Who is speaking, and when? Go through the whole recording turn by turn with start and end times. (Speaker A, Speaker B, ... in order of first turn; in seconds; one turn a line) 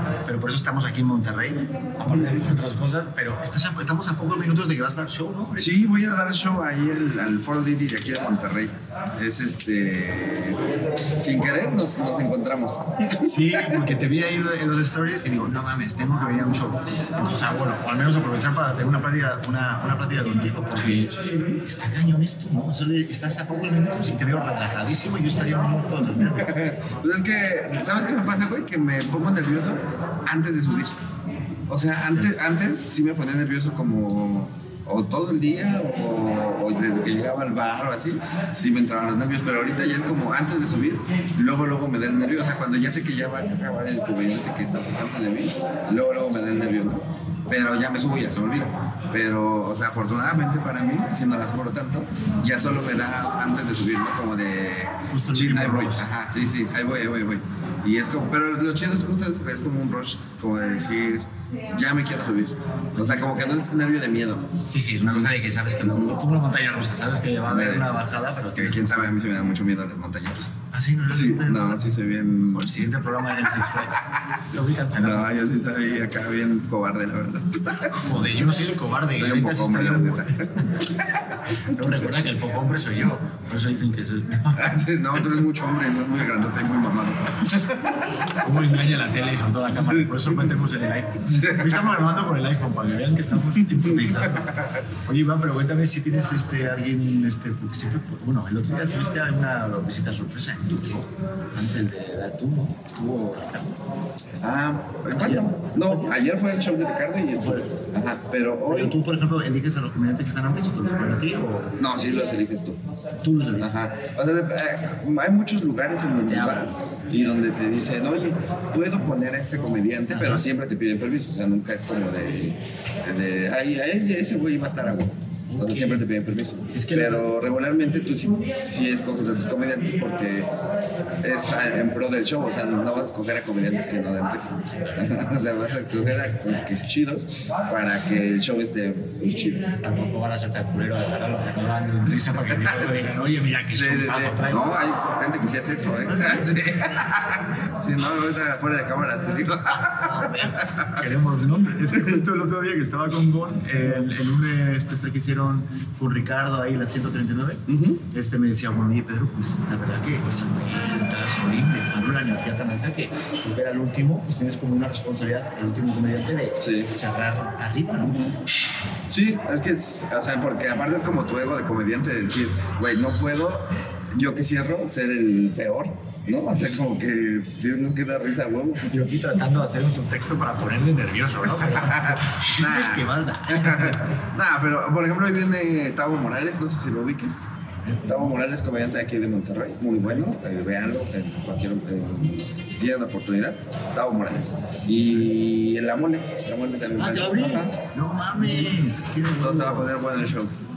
Speaker A: 0.2-5.7
Speaker B: 2.1-2.6
Speaker B: 5.6-10.6
Speaker B: 11.2-13.9
Speaker A: 13.2-26.6
Speaker B: 20.8-21.2
Speaker B: 26.3-31.0
Speaker B: 31.7-64.5
Speaker A: 55.1-56.1
Speaker A: 63.0-63.3
Speaker A: 64.7-69.2
Speaker B: 65.0-66.2
Speaker B: 67.5-68.0
Speaker B: 68.5-72.9
Speaker A: 70.7-71.9
Speaker A: 72.5-75.4
Speaker B: 75.0-78.2
Speaker A: 77.9-80.5
Speaker B: 79.2-81.2
Speaker A: 81.7-84.8
Speaker B: 84.6-88.5
Speaker A: 88.4-94.5
Speaker B: 89.8-90.5
Speaker B: 91.3-92.0
Speaker B: 93.8-94.8
Speaker A: 95.0-103.8
Speaker B: 104.4-109.0
Speaker A: 105.1-106.2
Speaker A: 107.4-107.7
Speaker A: 108.7-111.7
Speaker B: 111.8-112.8
Speaker A: 113.2-113.7
Speaker B: 113.6-130.5
Speaker A: 116.2-116.8
Speaker A: 120.1-120.5
Speaker A: 125.5-126.0
Speaker A: 126.7-127.3
Speaker B: 131.2-139.7
Speaker A: 139.8-144.7
Speaker B: 142.2-143.1
Speaker B: 143.7-151.0
Speaker A: 146.1-146.5
Speaker A: 150.1-168.3
Speaker B: 151.9-152.2
Speaker B: 157.7-158.0
Speaker B: 166.6-166.9
Speaker B: 168.0-168.4
Speaker B: 169.1-178.9
Speaker A: 178.9-184.1
Speaker B: 181.5-187.4
Speaker A: 187.8-188.4
Speaker B: 188.1-197.8
Speaker A: 190.0-190.2
Speaker A: 197.0-199.9
Speaker B: 199.3-200.6